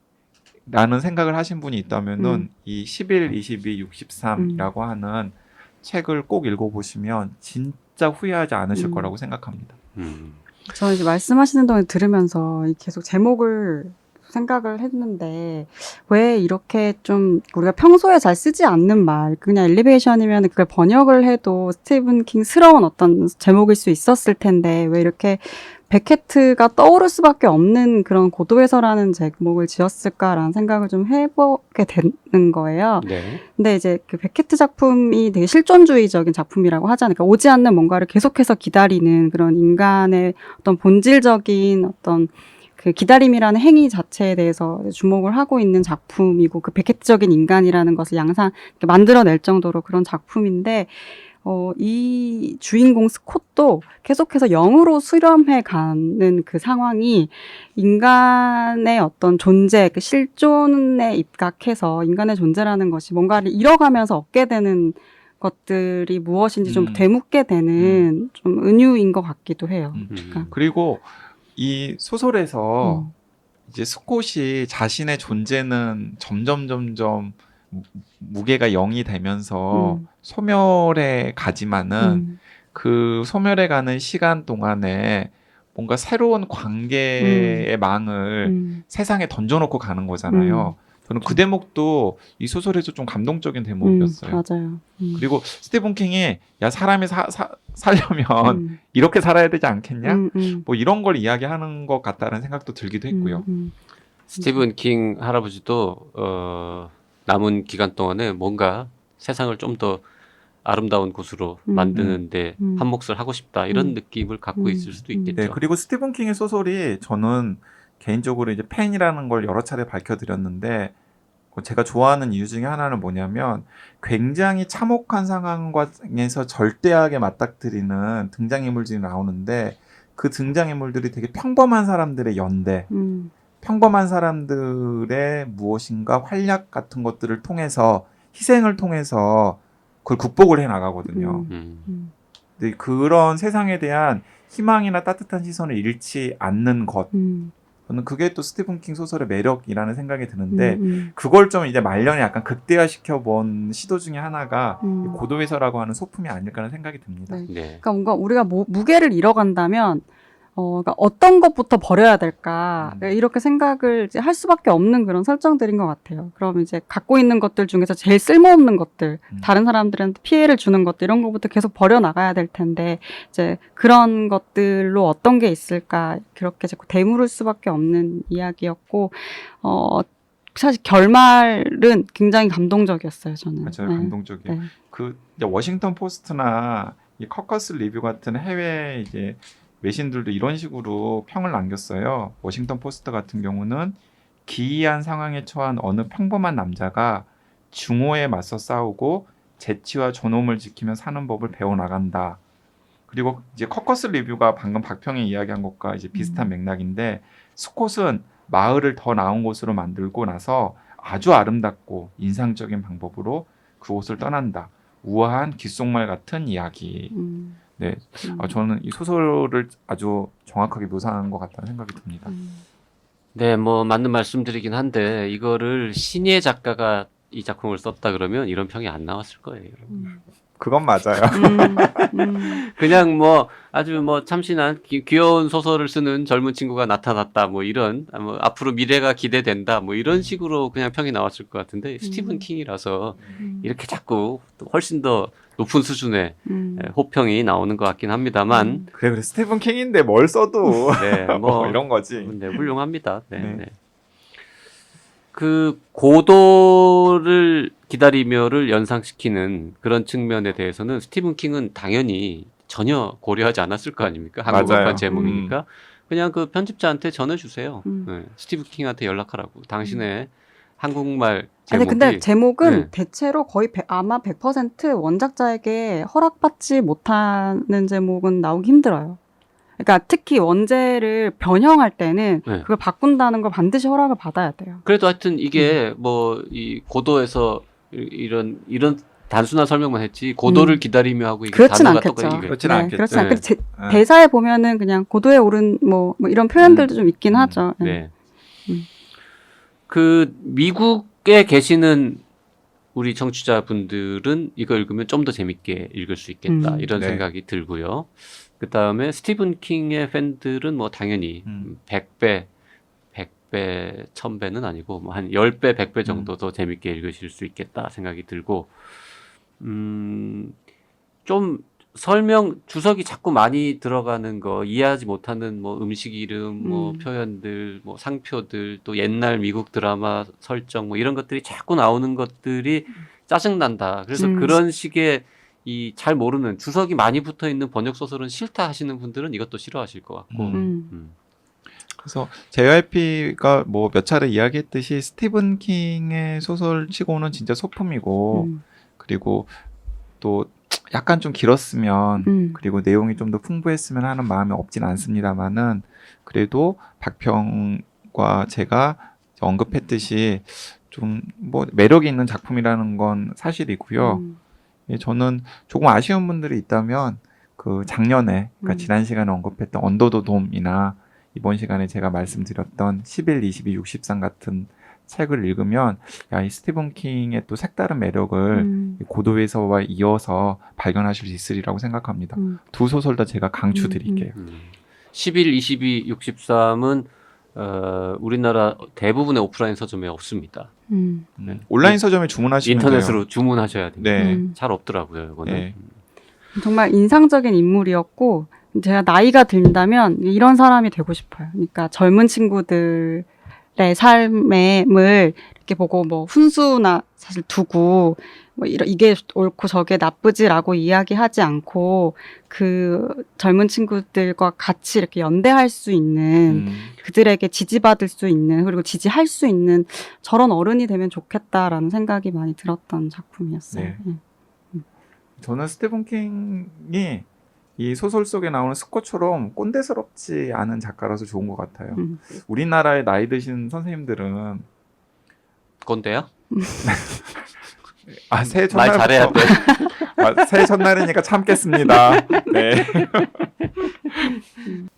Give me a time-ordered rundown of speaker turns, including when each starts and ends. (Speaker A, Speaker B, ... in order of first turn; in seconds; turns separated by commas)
Speaker A: 0.7-9.8, Speaker B: 2.2-2.5, Speaker B: 4.4-4.7, Speaker B: 8.7-9.1, Speaker C: 10.0-10.4, Speaker B: 10.7-70.5, Speaker C: 33.0-33.4, Speaker A: 66.6-67.1, Speaker A: 67.8-68.1, Speaker A: 69.9-73.1, Speaker C: 70.1-70.5, Speaker B: 72.8-73.1, Speaker A: 73.7-94.4, Speaker B: 79.7-80.1, Speaker B: 82.0-82.4, Speaker B: 87.2-87.7, Speaker B: 88.5-88.8, Speaker B: 90.3-91.4, Speaker B: 93.8-95.2, Speaker A: 95.2-103.5, Speaker B: 98.4-98.8, Speaker B: 100.0-100.7, Speaker B: 103.1-103.8, Speaker C: 104.3-110.0, Speaker B: 104.3-104.6, Speaker C: 110.6-115.6, Speaker B: 111.7-112.8, Speaker A: 112.0-112.2, Speaker B: 114.6-115.4, Speaker A: 115.4-120.9, Speaker A: 121.5-132.9, Speaker B: 132.9-133.3, Speaker A: 133.6-141.5, Speaker B: 141.1-142.1, Speaker C: 141.5-141.9, Speaker A: 142.6-147.1, Speaker B: 147.1-147.5, Speaker A: 147.9-157.4, Speaker B: 150.5-151.1, Speaker B: 154.8-155.2, Speaker B: 157.3-160.1, Speaker C: 157.5-157.8, Speaker B: 160.6-184.7, Speaker A: 162.8-163.1, Speaker A: 183.6-202.4, Speaker A: 203.1-217.2, Speaker B: 206.1-206.5, Speaker B: 217.1-217.6, Speaker A: 217.8-222.3, Speaker B: 218.2-218.5, Speaker B: 222.3-222.6, Speaker C: 223.3-230.1, Speaker B: 229.9-230.2, Speaker A: 230.6-232.1, Speaker B: 231.3-232.6, Speaker C: 232.6-248.9, Speaker B: 242.0-242.4, Speaker B: 243.4-243.7, Speaker B: 246.5-246.9, Speaker B: 248.5-248.9, Speaker A: 248.9-252.3, Speaker C: 251.0-253.7, Speaker A: 253.4-253.6, Speaker C: 255.3-272.9, Speaker A: 264.5-265.6, Speaker B: 264.6-265.4, Speaker B: 271.7-279.2, Speaker B: 279.8-284.8, Speaker C: 284.9-293.4, Speaker B: 290.5-290.8, Speaker B: 291.5-298.0, Speaker A: 292.4-294.0, Speaker A: 296.6-297.6, Speaker C: 297.8-298.1, Speaker C: 299.9-302.2, Speaker C: 302.9-312.5, Speaker B: 306.5-306.9, Speaker A: 307.0-307.2, Speaker C: 313.1-319.0, Speaker A: 316.1-316.3, Speaker C: 319.6-320.6, Speaker C: 321.3-341.1, Speaker B: 326.6-327.1, Speaker B: 334.1-334.6, Speaker A: 340.3-340.6, Speaker B: 340.5-340.9, Speaker A: 342.0-349.6, Speaker B: 348.3-348.6, Speaker A: 350.2-364.2, Speaker B: 352.2-352.6, Speaker B: 364.0-364.4, Speaker A: 364.9-384.3, Speaker B: 368.6-368.9, Speaker B: 378.5-379.0, Speaker B: 383.7-384.3, Speaker C: 384.4-390.7, Speaker B: 390.9-391.3, Speaker A: 391.4-393.2, Speaker C: 391.4-392.0, Speaker C: 392.6-395.9, Speaker A: 394.0-394.4, Speaker B: 394.2-394.5, Speaker A: 395.4-395.7, Speaker B: 396.6-424.2, Speaker A: 416.5-416.9, Speaker A: 423.7-424.0, Speaker A: 425.4-427.3, Speaker A: 427.8-434.7, Speaker B: 432.0-432.2, Speaker C: 435.8-436.3, Speaker B: 436.5-437.2, Speaker A: 436.8-437.2, Speaker A: 438.3-443.5, Speaker C: 438.4-440.0, Speaker B: 439.5-439.9, Speaker B: 441.8-442.5